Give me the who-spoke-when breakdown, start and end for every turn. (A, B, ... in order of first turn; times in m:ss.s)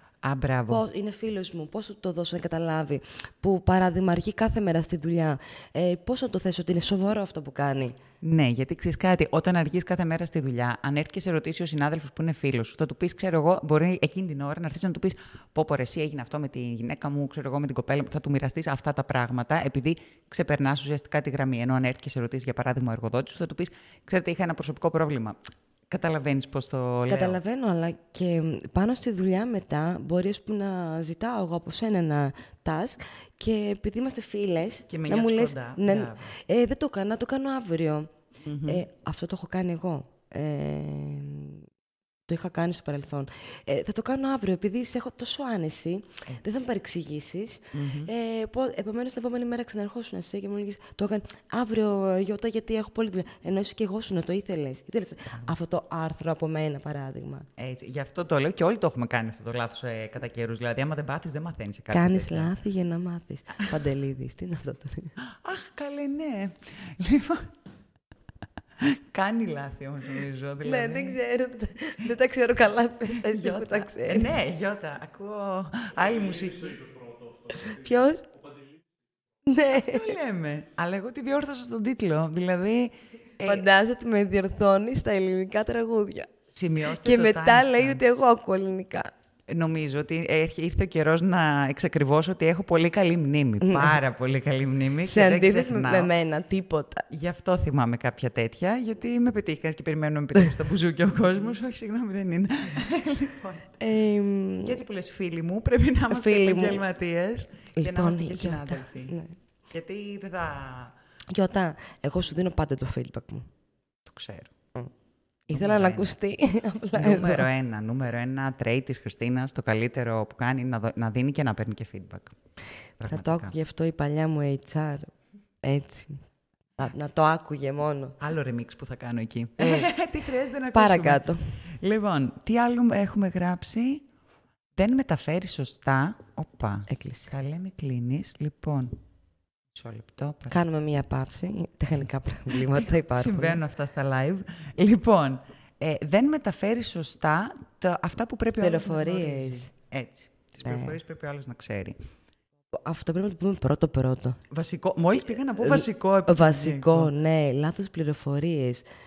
0:00.2-0:00.8 A
0:00.7-0:07.9 B
0:08.2-0:25.4 A
0:25.9-0:27.4 A
0:27.1-0:38.1 B
0:34.9-0:36.3 A
0:38.4-0:38.8 A
0:38.6-0:41.6 B
0:42.3-0:57.5 B
0:47.7-0:48.1 A
0:55.3-0:55.5 A
0:57.6-1:02.5 A
1:01.9-1:05.1 B
1:05.2-1:07.5 A
1:08.8-1:11.2 A
1:10.6-1:14.4 B
1:13.2-1:17.0 A
1:17.5-1:18.3 B
1:19.4-1:20.1 B
1:19.7-1:23.6 A
1:23.4-1:26.3 B
1:26.5-1:28.0 A
1:26.8-1:29.1 B
1:29.5-1:36.1 A
1:33.6-1:34.0 B
1:35.0-1:37.0 B
1:37.1-1:43.8 A
1:43.8-1:44.8 B
1:44.6-1:49.2 A
1:46.1-1:46.8 B
1:47.8-1:49.3 B
1:49.7-1:50.9 A
1:51.3-1:53.5 B
1:54.0-1:54.5 A
1:55.5-1:57.5 B
1:55.5-1:56.1 A
1:56.9-2:02.3 A
2:03.0-2:03.5 A
2:03.0-2:06.2 B
2:06.8-2:08.2 B
2:08.2-2:14.0 A
2:09.6-2:09.9 B
2:10.7-2:11.6 B
2:14.8-2:19.0 A
2:16.9-2:17.3 B
2:19.8-2:20.6 A
2:20.5-2:23.6 B
2:23.1-2:32.0 A
2:28.6-2:29.7 B
2:30.6-2:31.0 B
2:32.7-2:34.4 B
2:34.5-2:37.1 A
2:35.6-2:38.8 B